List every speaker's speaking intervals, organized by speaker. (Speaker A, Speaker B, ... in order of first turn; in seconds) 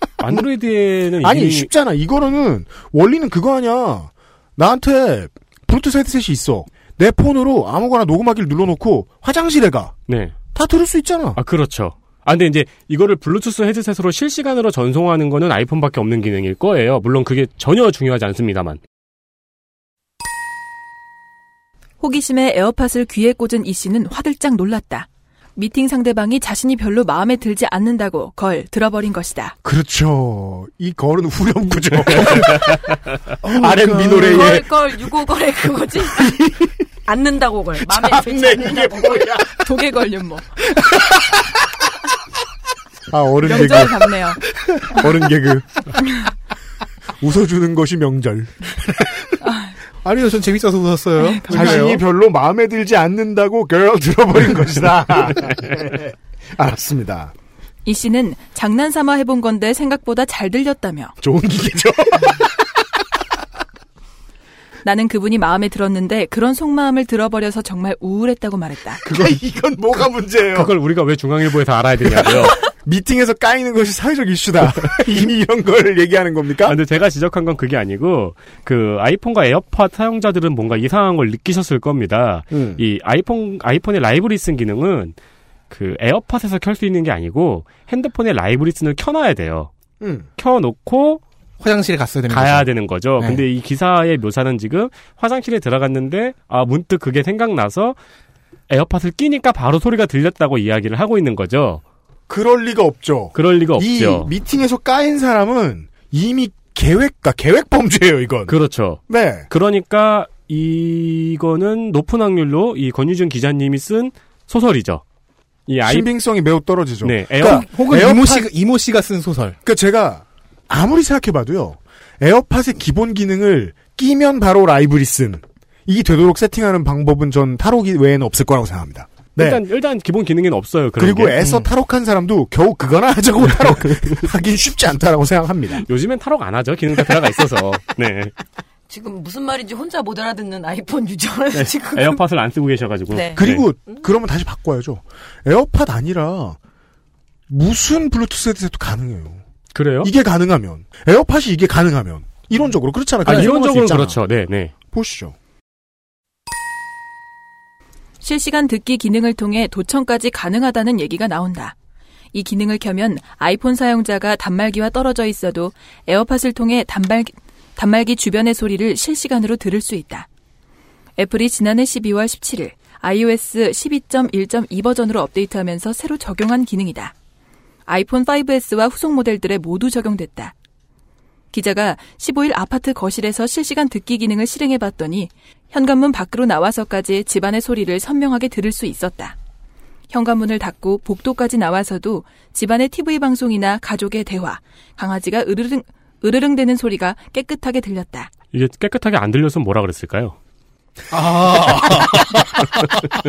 Speaker A: 0.2-1.7, 10.1-10.3, 11.4-18.8, 32.3-32.6, 70.5-72.6, 76.6-85.2, 85.7-89.7, 90.4-91.2, 92.3-98.0, 98.7-101.8, 103.3-104.3, 108.5-115.0, 115.7-116.1, 117.0-117.7, 129.4-131.4, 133.9-134.2, 135.8-138.3, 141.5-143.6, 149.7-150.1, 153.2-154.7, 198.5-200.4
Speaker B: 1.2-9.9, 10.5-11.4, 29.6-32.8, 33.5-34.7, 36.1-36.8, 37.9-39.5, 43.1-44.1, 44.8-45.9, 47.2-49.4, 51.5-57.3, 61.2-62.5, 69.0-70.7, 72.6-76.8, 82.5-82.8, 90.0-90.3, 102.3-108.5, 109.1-109.5, 115.8-118.5, 119.6-129.6, 131.0-135.8, 143.3-146.6, 147.5-149.4, 150.0-154.2, 154.9-155.4, 201.5-202.6
Speaker C: 22.0-29.6, 39.6-40.5, 43.4-44.4, 49.4-49.7, 57.9-61.1, 64.8-69.0, 158.2-161.8, 162.3-170.3, 171.2-177.1, 177.9-180.5, 181.5-189.4, 190.1-198.3
Speaker D: 33.4-34.5, 50.0-52.0, 91.6-93.4, 117.4-119.6, 201.1-202.8
Speaker E: 34.2-36.4, 37.0-39.3, 138.9-142.2, 143.1-143.4